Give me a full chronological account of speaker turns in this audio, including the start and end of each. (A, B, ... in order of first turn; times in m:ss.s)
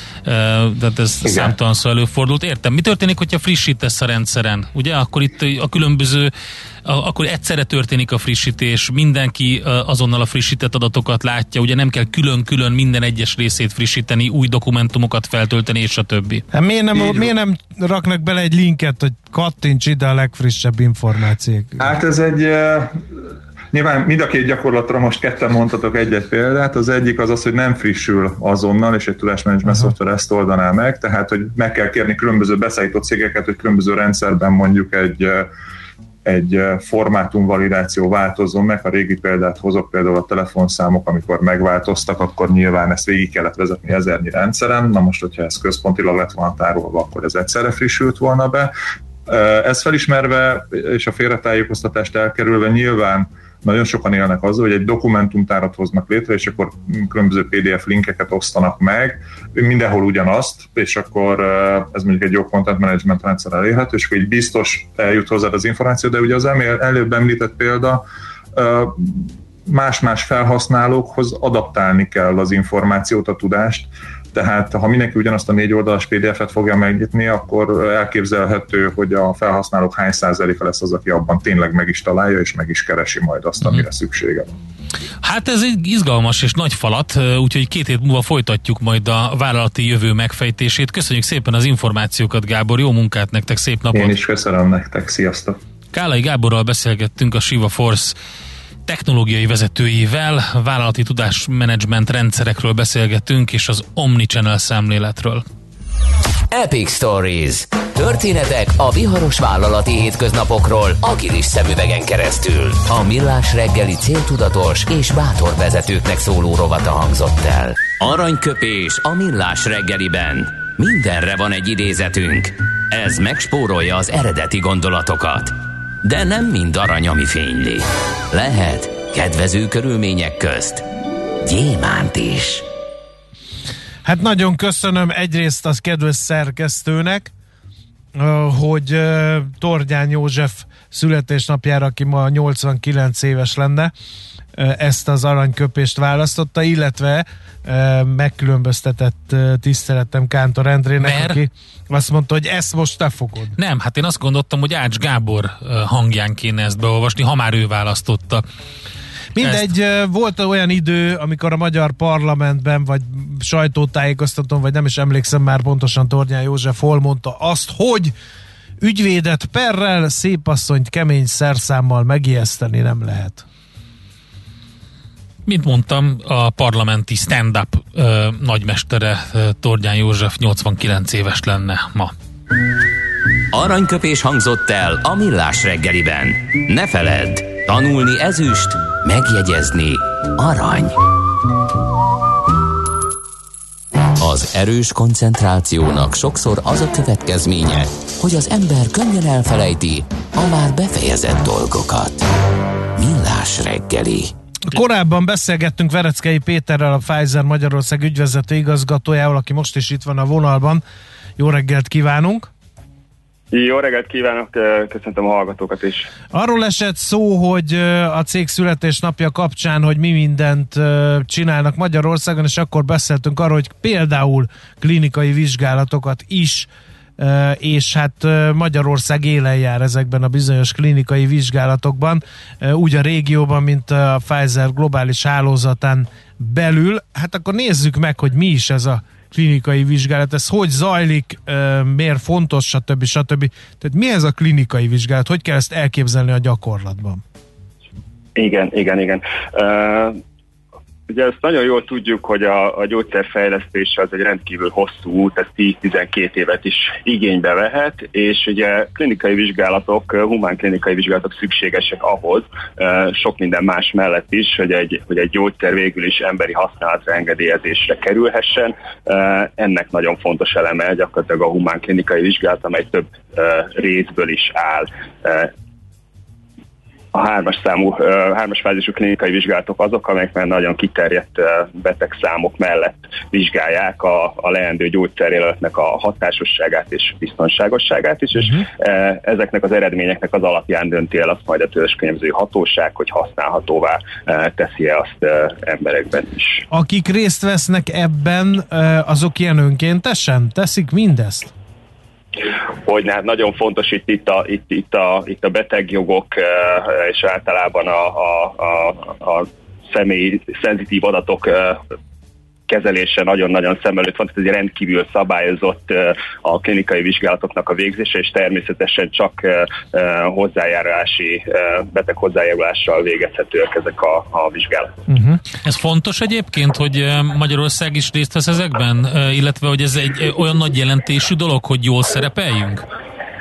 0:00.2-0:06.3 A
0:01.2-0:01.5 B
0:06.8-0:16.4 A
0:16.5-0:21.9 C
0:16.9-0:17.3 B
0:21.8-0:23.0 B
0:23.7-0:35.5 B
0:36.2-0:48.7 B
0:49.2-1:08.0 B
1:08.5-1:24.6 B
1:25.2-1:34.1 A
1:33.9-1:35.6 B
1:35.9-1:38.1 A
1:38.8-1:45.4 A
1:46.5-2:10.8 D
2:11.4-2:12.6 D
2:14.0-2:17.3 C
2:18.1-2:23.9 C
2:24.5-2:33.6 C
2:31.0-2:31.4 A
2:33.6-2:38.4 A
2:39.3-2:48.1 C
2:39.4-2:39.7 A
2:48.8-2:53.4 C
2:55.4-3:02.1 A
3:03.5-3:11.0 D
3:14.2-3:22.2 D
3:23.0-3:24.3 D
3:24.7-3:30.8 C
3:31.4-3:32.5 C
3:33.5-3:36.1 E
3:36.3-4:07.2 C
4:08.4-4:10.2 E
4:11.1-4:35.5 E
4:37.1-4:56.6 E
4:56.7-5:01.5 C
5:02.8-5:11.8 E
5:12.7-5:25.0 E
5:25.1-5:25.4 C
5:25.6-5:32.8 A